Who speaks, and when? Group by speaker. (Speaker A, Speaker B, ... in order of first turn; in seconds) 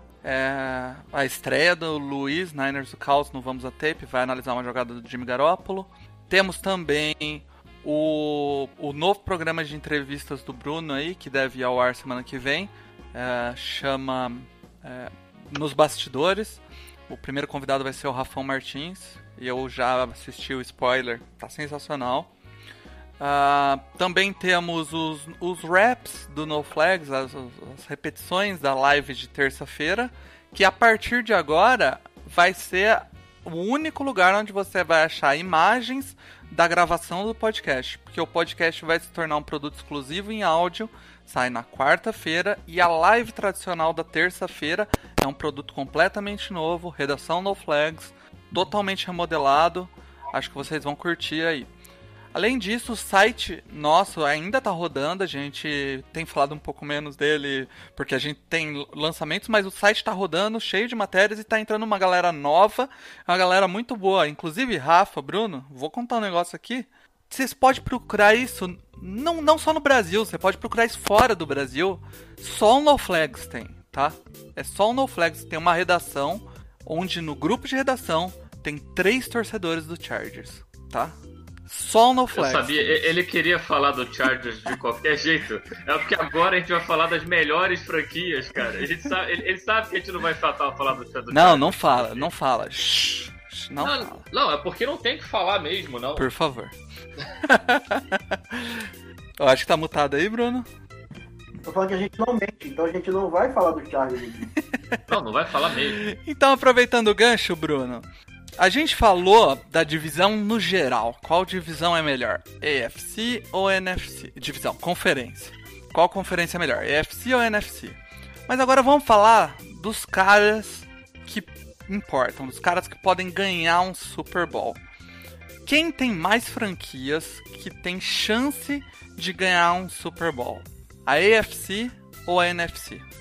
Speaker A: 0.2-22.3, 23.2-51.7, 52.3-83.1, 91.3-94.2, 96.2-96.8, 97.4-98.9, 99.4-100.7, 106.0-108.0, 108.6-124.8, 125.6-133.1
Speaker B: 82.3-92.3, 93.8-96.3, 105.1-106.0
Speaker C: 101.6-104.5